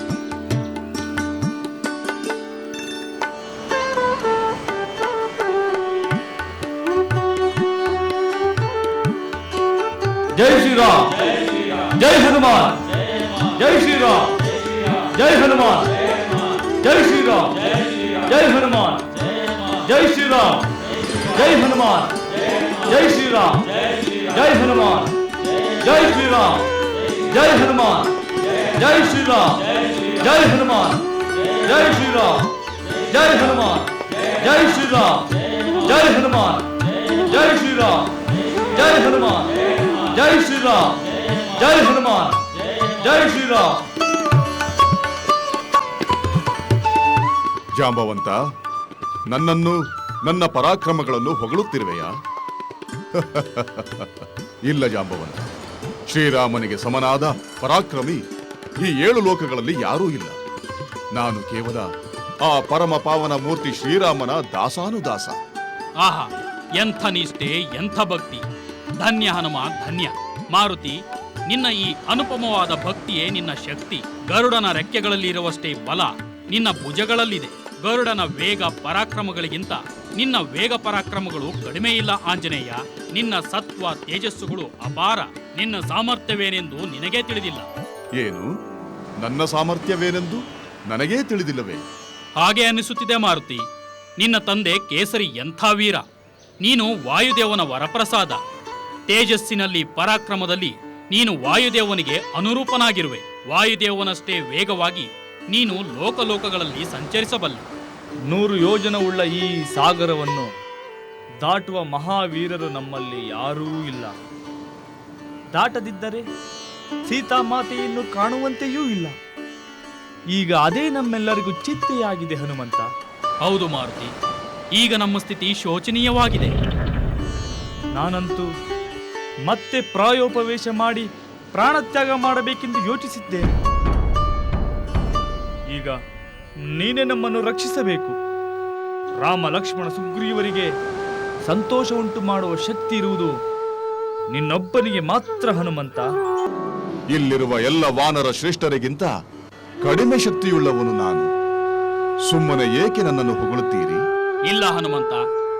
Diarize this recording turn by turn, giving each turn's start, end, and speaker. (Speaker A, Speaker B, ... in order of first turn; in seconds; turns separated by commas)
Speaker A: 10.3-12.8, Speaker A: 13.3-16.1, Speaker A: 16.7-25.1, Speaker A: 25.8-31.0, Speaker A: 31.6-32.5, Speaker A: 33.0-43.8, Speaker B: 47.8-48.4, Speaker B: 49.3-52.1, Speaker B: 53.1-55.5, Speaker B: 56.1-58.2, Speaker B: 58.8-60.4, Speaker B: 61.1-61.9, Speaker B: 62.4-65.4, Speaker C: 66.0-68.4, Speaker C: 69.0-87.7, Speaker B: 88.2-88.5, Speaker B: 89.2-91.8, Speaker C: 92.4-93.6, Speaker C: 94.2-96.0, Speaker C: 96.6-98.4, Speaker C: 99.1-107.7, Speaker A: 108.3-110.5, Speaker A: 111.4-114.1, Speaker A: 115.5-116.2, Speaker A: 117.1-119.2, Speaker A: 120.3-122.9, Speaker C: 123.4-124.1, Speaker C: 124.8-126.5, Speaker A: 128.0-128.5, Speaker A: 129.5-133.5, Speaker A: 135.7-136.0, Speaker A: 136.7-138.2, Speaker A: 139.2-140.7, Speaker A: 141.5-143.3, Speaker A: 144.3-146.1, Speaker B: 147.1-149.1, Speaker B: 149.8-151.3, Speaker B: 152.3-154.0, Speaker C: 154.5-155.2